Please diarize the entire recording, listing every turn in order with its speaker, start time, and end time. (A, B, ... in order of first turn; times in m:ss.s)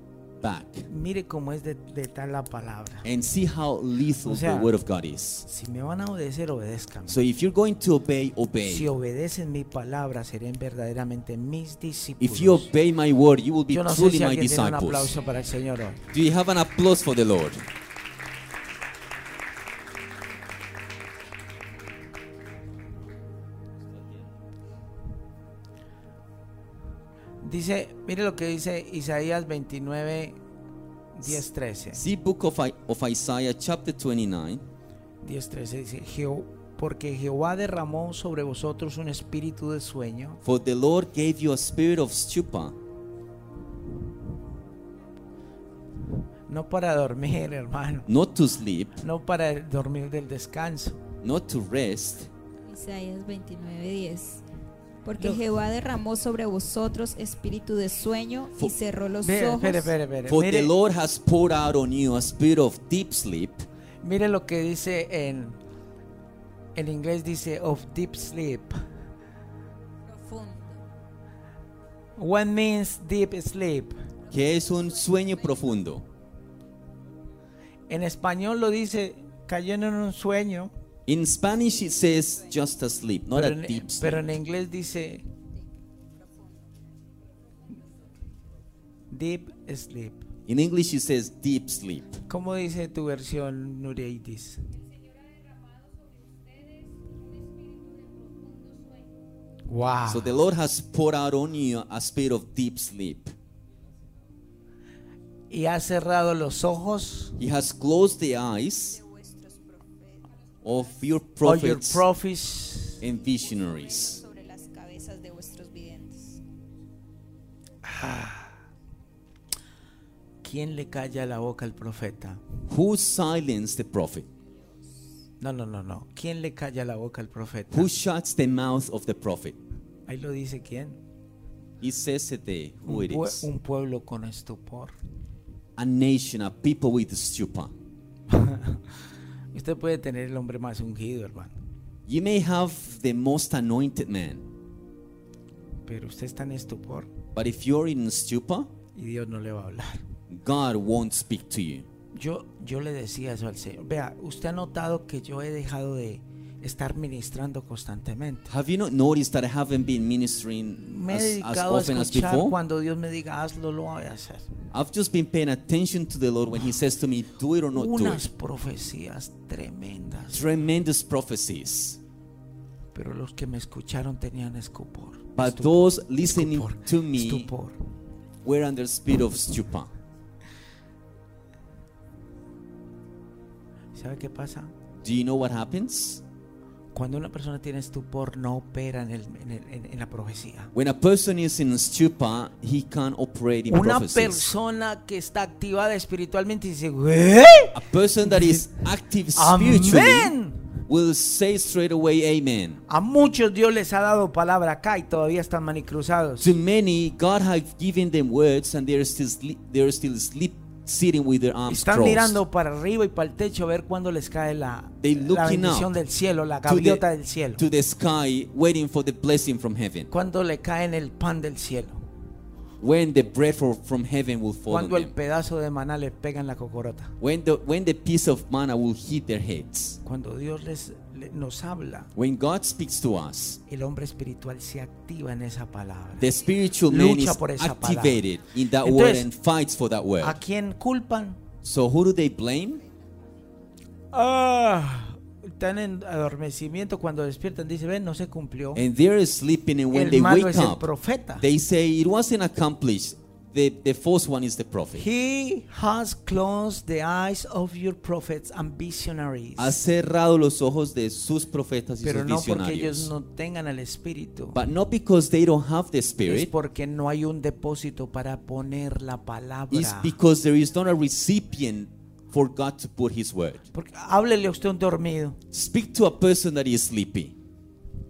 0:00.4-0:00.9 A
0:00.9-0:03.1 B
0:03.0-0:05.4 A
0:04.2-0:04.7 B
0:05.4-0:07.2 B
0:07.1-0:08.9 A
0:08.6-0:12.7 B
0:12.2-0:15.1 A
0:13.7-0:16.0 B
0:16.1-0:17.6 A
0:27.4-0:30.4 B
0:31.1-0:32.0 B
0:31.9-0:34.6 A
0:35.2-0:40.4 B
0:40.4-0:42.8 A
0:46.5-0:48.1 B
0:48.1-0:49.0 A
0:49.0-0:51.0 B
0:51.2-0:52.3 A
0:52.6-0:54.4 C
0:55.0-0:59.9 C
0:59.2-1:00.7 B
1:00.3-1:03.6 A
1:04.0-1:05.6 B
1:06.7-1:08.8 B
1:10.1-1:10.8 C
1:12.2-1:14.0 B
1:14.3-1:16.0 A
1:17.9-1:20.7 B
1:21.1-1:24.2 A
1:23.3-1:25.3 B
1:29.1-1:30.3 B
1:30.5-1:32.2 A
1:32.3-1:34.7 B
1:35.5-1:36.9 C
1:37.5-1:39.0 C
1:39.7-1:40.4 B
1:40.1-1:43.3 A
1:45.5-1:47.4 B
1:47.4-1:49.0 A
1:49.0-1:50.3 C
1:50.6-1:52.0 A
1:51.4-1:53.0 B
1:53.0-1:54.2 A
1:53.5-1:56.4 C
1:57.8-1:58.6 B
2:00.4-2:02.4 B
2:02.7-2:04.3 A
2:05.4-2:07.9 B
2:07.7-2:09.6 A
2:10.1-2:11.0 B
2:11.8-2:13.5 A
2:12.8-2:15.0 B
2:15.8-2:17.7 A
2:18.3-2:18.8 B
2:19.5-2:21.5 B
2:22.1-2:24.5 A
2:25.8-2:27.1 B
2:27.3-2:28.7 A
2:28.9-2:30.0 B
2:30.3-2:31.9 A
2:32.1-2:38.5 B
2:38.5-2:42.6 A
2:40.8-2:44.5 B
2:44.7-2:48.2 A
2:47.7-2:50.4 B
2:50.3-2:52.0 A
2:52.9-2:57.8 B
2:55.3-2:57.5 A
2:58.4-2:59.9 A
3:03.9-3:04.7 B
3:05.0-3:06.2 A
3:06.9-3:10.7 B
3:10.7-3:14.5 A
3:13.7-3:18.8 B
3:17.7-3:20.3 A
3:19.3-3:20.8 B
3:20.9-3:22.8 A
3:22.9-3:26.5 B
3:26.4-3:32.4 A
3:31.7-3:37.6 B
3:35.0-3:35.9 A
3:36.6-3:37.0 A
3:37.6-3:40.1 A
3:40.1-3:42.1 B
3:42.8-3:45.1 A
3:44.7-3:47.1 B
3:47.2-3:50.0 A
3:50.0-3:52.1 B
3:52.1-3:53.6 A
3:53.7-3:56.3 B
3:56.2-4:00.4 A
3:56.8-3:58.2 B
3:58.8-3:59.3 B
4:00.2-4:01.4 B
4:01.6-4:02.8 A
4:04.1-4:08.8 B
4:08.7-4:15.0 A
4:09.9-4:11.4 B
4:14.9-4:19.8 B
4:19.6-4:23.1 A
4:22.0-4:24.6 B
4:24.5-4:26.5 A
4:26.2-4:30.2 B
4:29.7-4:33.6 A
4:33.7-4:35.4 B
4:35.5-4:37.3 A